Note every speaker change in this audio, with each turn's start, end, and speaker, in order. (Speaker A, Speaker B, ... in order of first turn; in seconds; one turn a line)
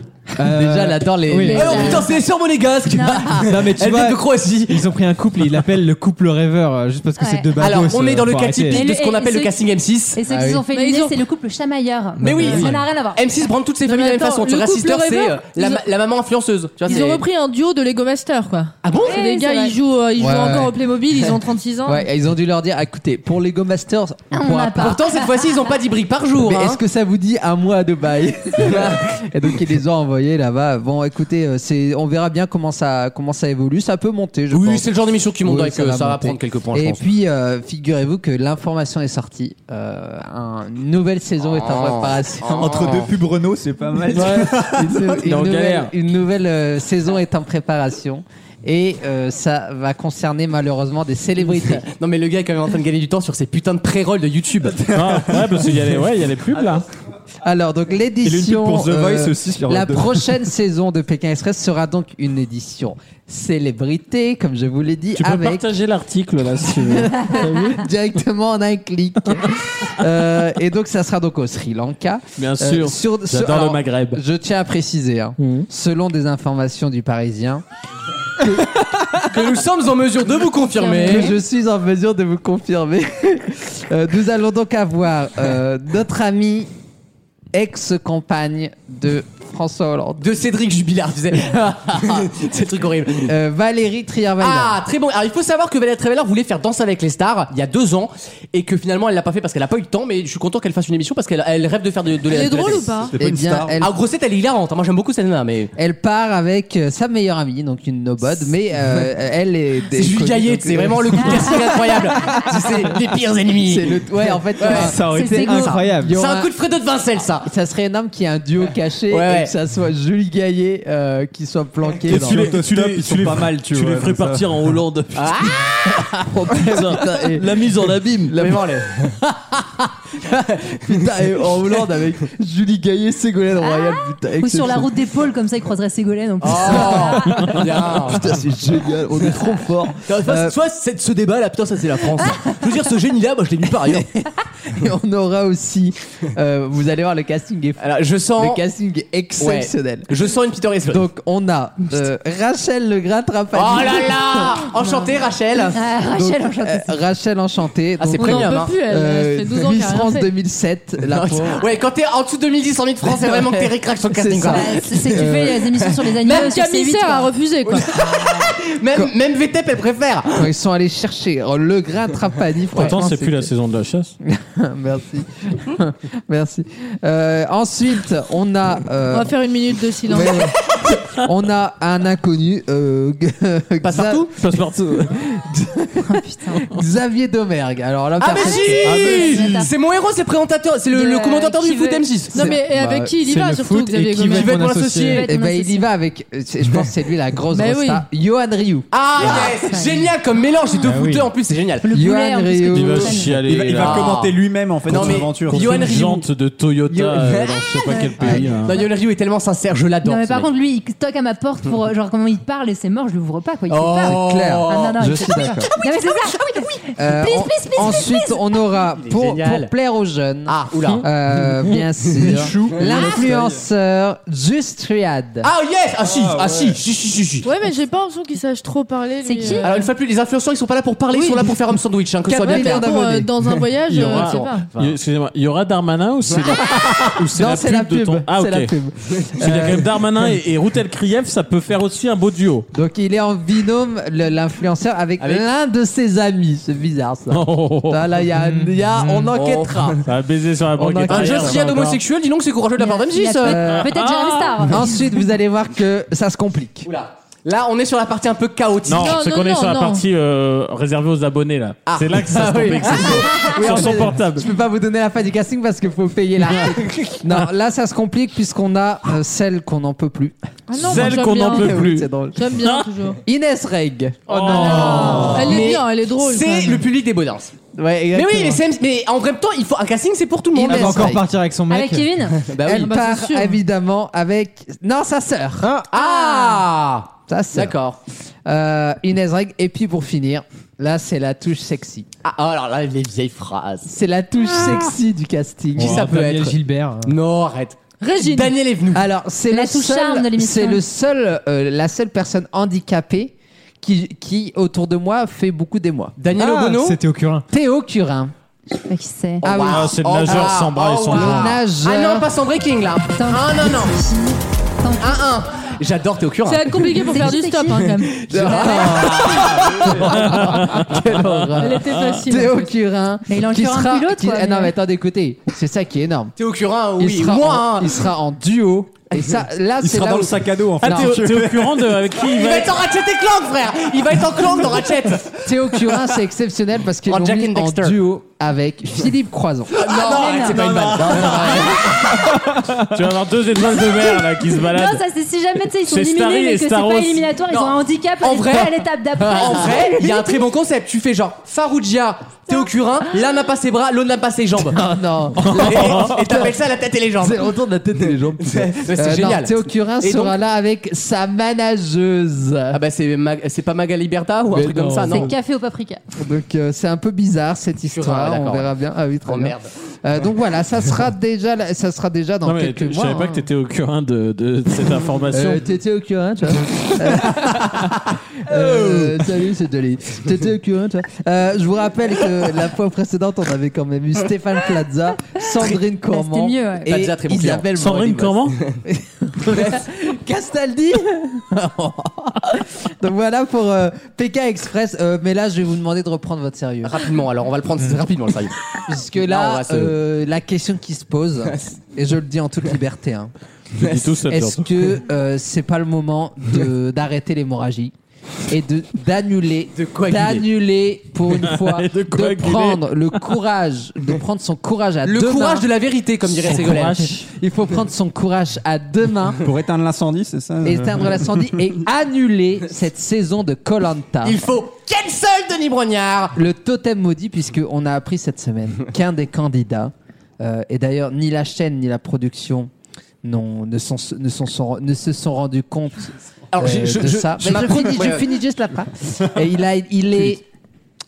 Speaker A: 0.4-2.0
Speaker B: 0.5-4.8
Speaker C: 1.4-2.2
Speaker C: 2.9-3.4
Speaker A: 3.4-8.8
Speaker C: 7.2-7.6
Speaker B: 7.6-10.2
Speaker C: 8.7-9.6
Speaker C: 10.1-13.2
Speaker D: 10.3-10.6
Speaker E: 10.7-11.2
Speaker B: 12.2-17.2
Speaker A: 12.2-12.8
Speaker E: 13.9-15.8
Speaker E: 16.8-22.0
Speaker B: 18.8-19.2
Speaker C: 19.0-19.7
Speaker D: 20.2-20.8
Speaker D: 21.9-25.0
Speaker C: 24.3-25.7
Speaker B: 24.8-26.8
Speaker D: 26.4-34.9
Speaker B: 28.6-29.1
Speaker B: 34.5-37.0
Speaker D: 35.4-43.0
Speaker B: 41.4-43.1
Speaker F: 42.6-45.1
Speaker G: 44.1-45.9
Speaker D: 44.1-51.9
Speaker B: 51.4-54.8
Speaker F: 54.6-55.9
Speaker G: 54.9-56.8
Speaker D: 57.4-65.7
Speaker F: 58.2-60.4
Speaker G: 65.2-67.8
Speaker D: 66.7-77.6
Speaker G: 72.4-74.2
Speaker G: 75.4-75.7
Speaker D: 78.4-79.3
Speaker B: 79.3-81.4
Speaker D: 80.9-86.7
Speaker D: 87.5-90.2
Speaker B: 90.2-93.3
Speaker D: 93.3-94.8
Speaker B: 94.4-103.0
Speaker E: 102.3-103.1
Speaker F: 102.8-103.8
Speaker D: 103.1-103.9
Speaker B: 103.8-105.7
Speaker D: 105.8-111.9
Speaker B: 108.8-109.0
Speaker B: 109.9-117.5
Speaker D: 113.6-116.5
Speaker A: 114.7-116.1
Speaker C: 115.0-115.8
Speaker D: 117.4-122.5
Speaker B: 119.1-119.5
Speaker F: 122.1-124.6
Speaker G: 122.1-125.6
Speaker B: 125.2-125.6
Speaker D: 125.9-134.9
Speaker G: 126.2-128.4
Speaker B: 128.3-129.1
Speaker C: 133.6-137.3
Speaker B: 136.4-138.4
Speaker D: 136.5-140.5
Speaker B: 140.1-144.1
Speaker D: 143.9-147.8
Speaker B: 147.8-148.6
Speaker D: 148.4-150.1
Speaker B: 149.4-151.0
Speaker D: 150.9-154.6
Speaker B: 153.5-155.8
Speaker C: 154.8-155.1
Speaker C: 155.7-156.9
Speaker D: 156.0-161.7
Speaker B: 158.0-158.7
Speaker E: 158.2-160.3
Speaker B: 161.0-166.2
Speaker D: 163.1-165.6
Speaker C: 164.4-167.3
Speaker E: 166.2-167.9
Speaker B: 167.7-170.5
Speaker C: 167.9-168.5
Speaker D: 170.3-173.5
Speaker G: 172.7-174.1
Speaker D: 174.2-179.3
Speaker E: 179.1-180.5
Speaker D: 180.0-184.3
Speaker B: 183.8-184.3
Speaker G: 184.4-185.1
Speaker D: 184.9-189.4
Speaker C: 186.1-186.6
Speaker B: 188.2-192.5
Speaker C: 188.3-189.7
Speaker C: 190.9-192.1
Speaker E: 192.3-194.5
Speaker D: 192.3-193.2
Speaker A: 193.2-195.2
Speaker B: 194.1-195.2
Speaker C: 195.1-195.9
Speaker D: 195.2-199.4
Speaker E: 197.5-198.0
Speaker B: 198.9-201.9
Speaker C: 199.2-200.1
Speaker A: 200.8-201.3
Speaker C: 201.8-203.3
Speaker D: 201.9-203.3
Speaker G: 202.7-204.1
Speaker F: 203.4-206.0
Speaker B: 203.7-204.3
Speaker B: 204.9-206.2
Speaker G: 204.9-208.8
Speaker B: 206.9-210.5
Speaker C: 207.9-208.8
Speaker C: 210.0-218.4
Speaker B: 213.7-215.6
Speaker D: 214.0-215.7
Speaker D: 217.0-225.5
Speaker B: 219.0-219.7
Speaker B: 220.5-221.1
Speaker B: 222.0-223.4
Speaker F: 222.2-223.6
Speaker B: 225.4-227.5
Speaker F: 226.0-226.8
Speaker E: 227.4-229.8
Speaker C: 229.2-229.8
Speaker B: 229.6-232.9
Speaker D: 231.2-231.5
Speaker D: 232.2-233.5
Speaker E: 232.4-234.7
Speaker G: 233.9-238.7
Speaker B: 234.1-234.9
Speaker D: 236.4-239.9
Speaker G: 239.4-242.7
Speaker D: 242.7-250.0
Speaker B: 245.2-245.4
Speaker G: 247.3-248.1
Speaker A: 248.4-248.7
Speaker B: 249.3-250.0
Speaker G: 250.0-252.0
Speaker D: 250.8-251.6
Speaker B: 251.1-253.8
Speaker C: 252.8-254.9
Speaker D: 253.4-253.9
Speaker G: 253.7-254.7
Speaker D: 254.7-256.9
Speaker B: 256.8-259.2
Speaker G: 258.9-264.5
Speaker E: 259.0-260.0
Speaker B: 261.9-264.0
Speaker D: 262.9-272.5
Speaker B: 266.6-267.1
Speaker E: 270.7-273.2
Speaker G: 270.8-272.1
Speaker G: 272.6-272.9
Speaker D: 273.2-275.5
Speaker G: 274.3-275.3
Speaker B: 274.5-277.6
Speaker C: 274.6-275.2
Speaker E: 274.7-276.8
Speaker D: 277.7-278.6
Speaker B: 278.1-281.1
Speaker D: 280.5-281.2
Speaker A: 280.7-282.1
Speaker C: 281.7-282.4
Speaker B: 282.5-282.9
Speaker D: 282.6-285.8
Speaker E: 282.7-283.6
Speaker B: 285.9-288.0
Speaker C: 285.9-286.6
Speaker D: 287.3-287.7
Speaker D: 288.4-292.1
Speaker B: 292.2-293.9
Speaker D: 293.8-296.0
Speaker A: 295.8-297.1
Speaker B: 295.8-299.0
Speaker E: 298.0-298.5
Speaker D: 298.9-306.1
Speaker C: 299.5-300.8
Speaker B: 306.2-307.0
Speaker A: 306.3-307.4
Speaker D: 307.5-308.3
Speaker C: 308.7-309.4
Speaker B: 309.4-313.9
Speaker D: 309.4-312.3
Speaker G: 309.7-311.6
Speaker C: 313.1-315.2
Speaker B: 315.0-316.9
Speaker E: 316.5-318.2
Speaker C: 316.9-319.2
Speaker B: 318.1-321.2
Speaker D: 318.3-326.3
Speaker G: 320.2-322.2
Speaker E: 321.6-322.7
Speaker C: 323.3-324.7
Speaker B: 326.4-328.1
Speaker D: 327.0-331.2
Speaker F: 329.8-331.9
Speaker G: 330.8-332.7
Speaker B: 332.2-335.4
Speaker D: 335.4-339.9
Speaker B: 337.0-338.0
Speaker B: 339.7-342.2
Speaker C: 339.9-340.6
Speaker F: 340.6-341.3
Speaker G: 341.1-341.7
Speaker G: 342.8-345.0
Speaker C: 343.8-350.4
Speaker G: 345.9-347.3
Speaker B: 347.5-354.8
Speaker D: 354.7-356.5
Speaker B: 355.4-360.4
Speaker G: 355.4-356.1
Speaker D: 357.2-362.8
Speaker B: 362.7-365.3
Speaker D: 364.5-365.3
Speaker C: 365.1-366.0
Speaker D: 366.1-373.5
Speaker B: 367.9-368.7
Speaker B: 369.2-369.7
Speaker G: 372.4-375.6
Speaker D: 375.3-388.4
Speaker B: 378.5-379.2
Speaker B: 385.4-385.8
Speaker C: 386.1-386.9
Speaker B: 386.8-387.7
Speaker G: 387.7-388.6
Speaker B: 388.5-388.8
Speaker D: 388.9-397.0
Speaker B: 396.8-398.6
Speaker D: 398.9-403.3
Speaker B: 399.2-399.9
Speaker B: 403.8-404.1
Speaker G: 403.8-404.9
Speaker D: 404.2-407.9
Speaker D: 408.5-415.7
Speaker B: 409.8-410.4
Speaker G: 411.3-412.8
Speaker B: 415.0-417.0
Speaker D: 416.4-419.4
Speaker G: 416.4-417.3
Speaker F: 419.4-421.5
Speaker D: 420.6-424.4
Speaker B: 424.2-426.4
Speaker D: 426.3-432.7
Speaker D: 433.2-440.4
Speaker B: 436.5-438.3